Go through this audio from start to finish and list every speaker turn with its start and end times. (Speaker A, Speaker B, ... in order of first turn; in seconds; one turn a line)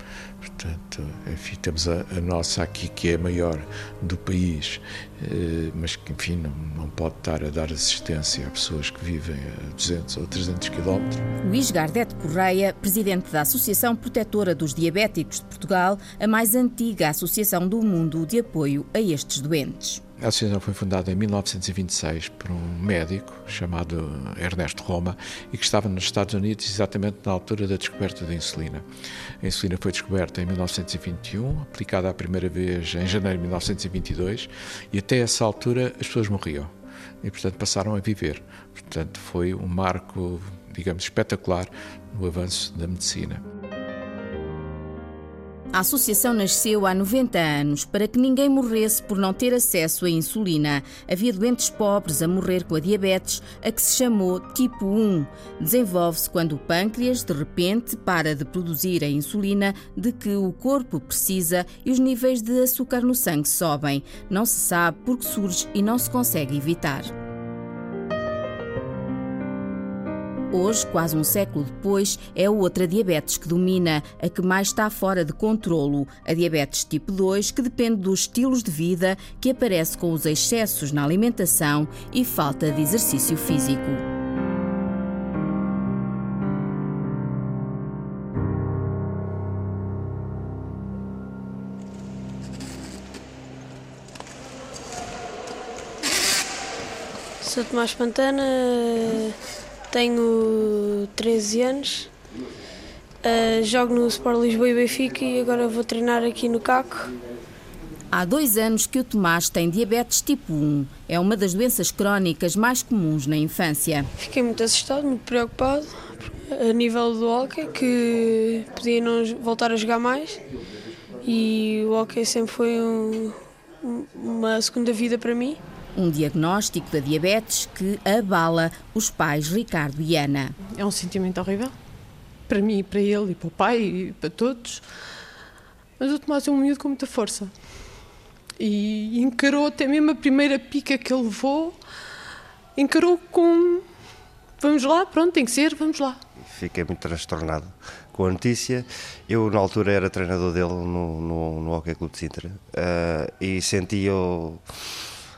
Speaker A: 0.4-11.2
Speaker B: 11.4-20.0
Speaker A: 20.2-28.9
Speaker A: 29.4-43.4
Speaker B: 45.7-67.1
Speaker B: 70.5-84.0
Speaker C: 97.4-99.3
Speaker C: 99.9-102.1
Speaker C: 103.2-107.1
Speaker B: 108.1-114.1
Speaker C: 114.2-120.4
Speaker C: 121.2-125.6
Speaker B: 125.9-130.6
Speaker D: 130.7-131.7
Speaker D: 132.5-135.1
Speaker D: 136.0-137.8
Speaker D: 138.6-141.8
Speaker D: 142.7-143.8
Speaker D: 144.6-146.2
Speaker E: 146.4-154.6